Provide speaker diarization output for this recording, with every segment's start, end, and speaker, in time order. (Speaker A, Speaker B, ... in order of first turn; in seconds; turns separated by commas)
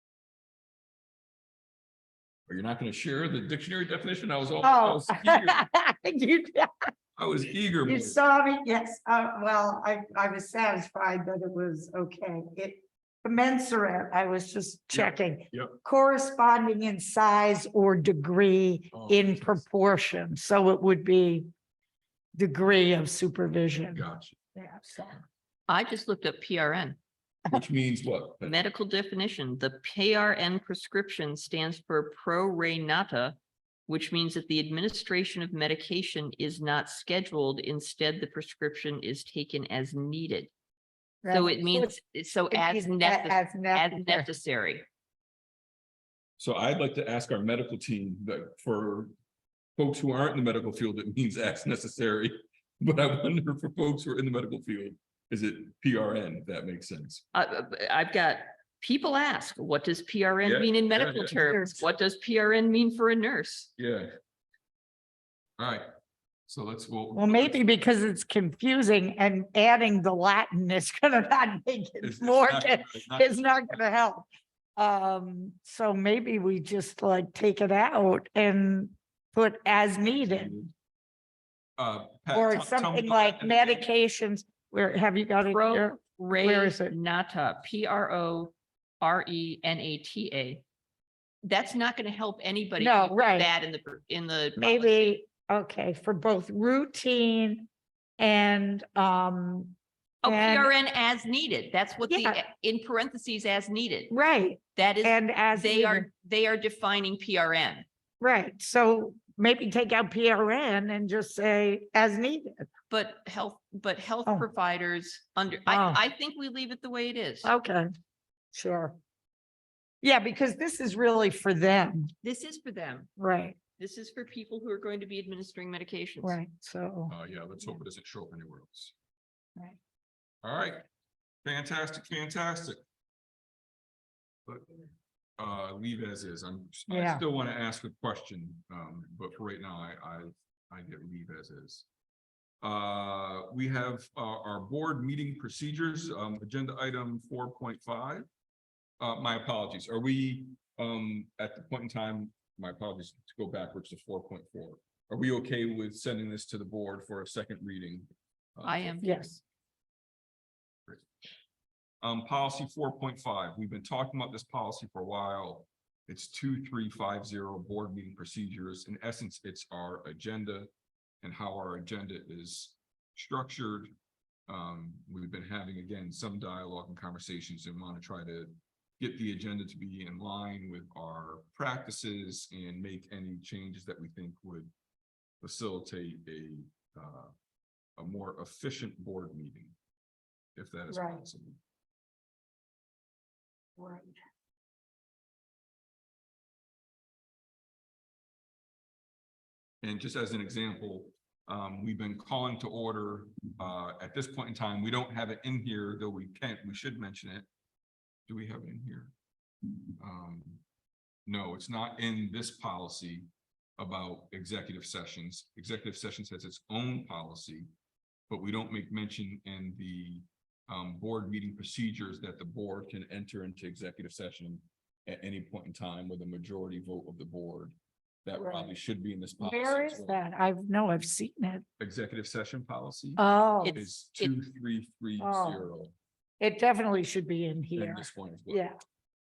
Speaker A: 2.5-5.6, Speaker B: 4.6-6.7, Speaker A: 7.2-8.2, Speaker B: 7.9-21.5, Speaker A: 14.9-15.8, Speaker A: 18.9-19.6, Speaker B: 22.4-25.2, Speaker A: 23.9-24.4, Speaker C: 25.7-27.0, Speaker A: 27.5-28.6, Speaker C: 28.4-33.4, Speaker C: 33.9-40.5, Speaker B: 41.2-41.9, Speaker C: 41.3-44.9, Speaker B: 42.5-44.3, Speaker A: 46.4-49.1, Speaker A: 49.8-57.2, Speaker C: 57.3-63.7, Speaker A: 60.4-61.4, Speaker B: 61.3-61.8, Speaker A: 63.8-64.1, Speaker A: 65.6-65.9, Speaker A: 66.5-67.8, Speaker B: 67.1-80.6, Speaker A: 72.0-73.4, Speaker A: 80.0-80.7, Speaker A: 81.8-83.9, Speaker B: 82.3-87.0, Speaker C: 85.5-90.6, Speaker C: 91.4-95.2, Speaker B: 92.8-93.5, Speaker B: 94.6-97.7, Speaker B: 98.2-100.7, Speaker C: 100.2-104.1, Speaker B: 102.1-102.4, Speaker B: 104.1-106.1, Speaker C: 104.8-107.8, Speaker B: 108.2-112.7, Speaker C: 112.9-117.5, Speaker B: 115.7-116.0, Speaker B: 117.4-117.9, Speaker B: 118.5-119.0, Speaker B: 120.0-122.1, Speaker C: 122.2-123.1, Speaker B: 123.2-123.6, Speaker C: 123.8-126.4, Speaker B: 126.2-127.2, Speaker A: 127.1-128.9, Speaker A: 130.4-130.8, Speaker A: 131.4-132.8, Speaker A: 135.4-141.9, Speaker B: 136.9-137.2, Speaker A: 142.6-148.3, Speaker A: 149.0-159.2, Speaker C: 158.6-159.3, Speaker B: 159.0-159.4, Speaker A: 162.0-170.7, Speaker A: 171.2-173.9, Speaker A: 174.5-184.7, Speaker A: 185.4-187.3, Speaker A: 188.0-189.8, Speaker A: 190.6-191.6, Speaker B: 190.9-191.2, Speaker B: 193.8-194.2, Speaker A: 199.8-207.5, Speaker A: 208.3-209.1, Speaker A: 210.0-210.6, Speaker A: 211.3-213.3, Speaker A: 213.8-217.7, Speaker A: 218.3-230.2, Speaker B: 228.3-228.7, Speaker B: 229.4-231.6, Speaker A: 231.8-233.2, Speaker B: 233.2-233.8, Speaker C: 233.6-234.3, Speaker A: 233.7-235.9, Speaker B: 235.2-235.7, Speaker B: 236.4-238.8, Speaker A: 237.8-238.7